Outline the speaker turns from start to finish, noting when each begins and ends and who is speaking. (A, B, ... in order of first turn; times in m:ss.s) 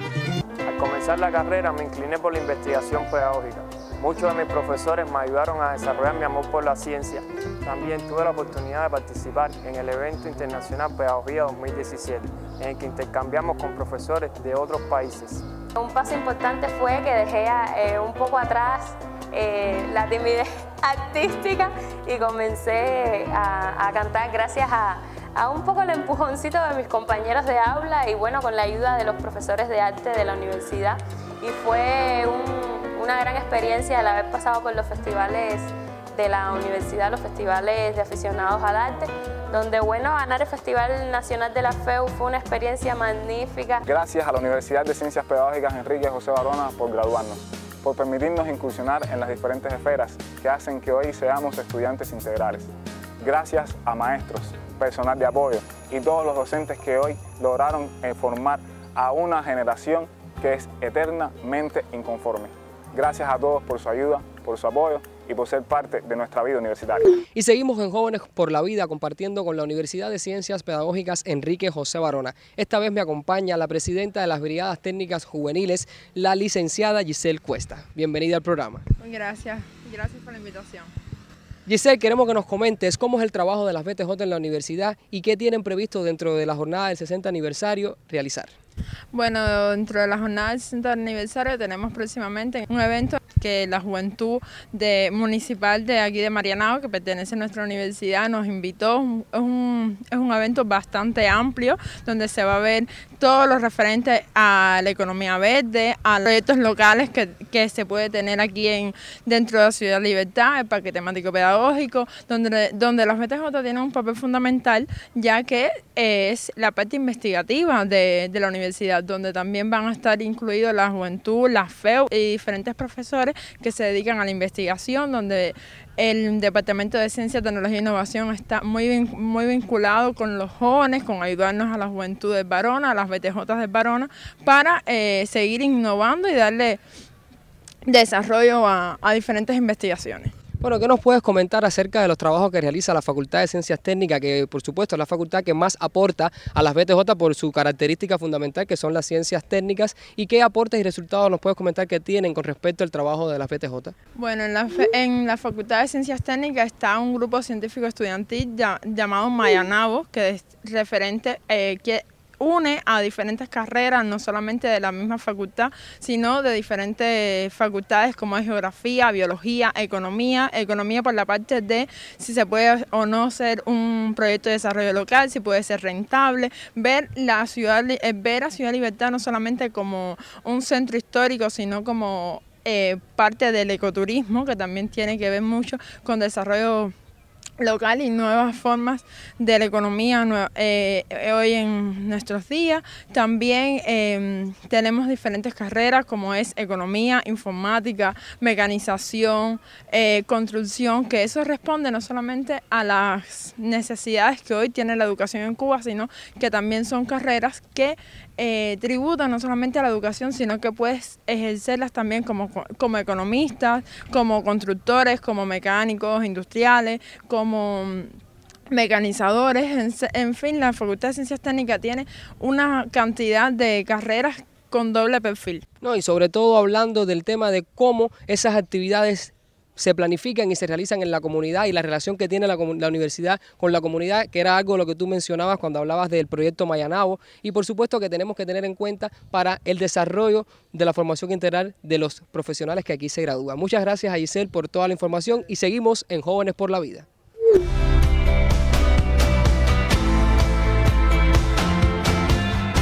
0:00.6-0:15.5 A
0:15.7-0:43.8 B
0:43.8-1:07.2 C
1:07.3-1:18.8 D
1:19.0-1:20.9 E
1:21.6-1:28.5 D
1:29.1-2:16.8 E
2:17.9-2:20.3 E
2:20.6-2:33.9 D
2:34.2-3:06.9 E
3:07.6-3:38.1 E
3:38.7-3:45.6 E
3:45.8-4:07.1 D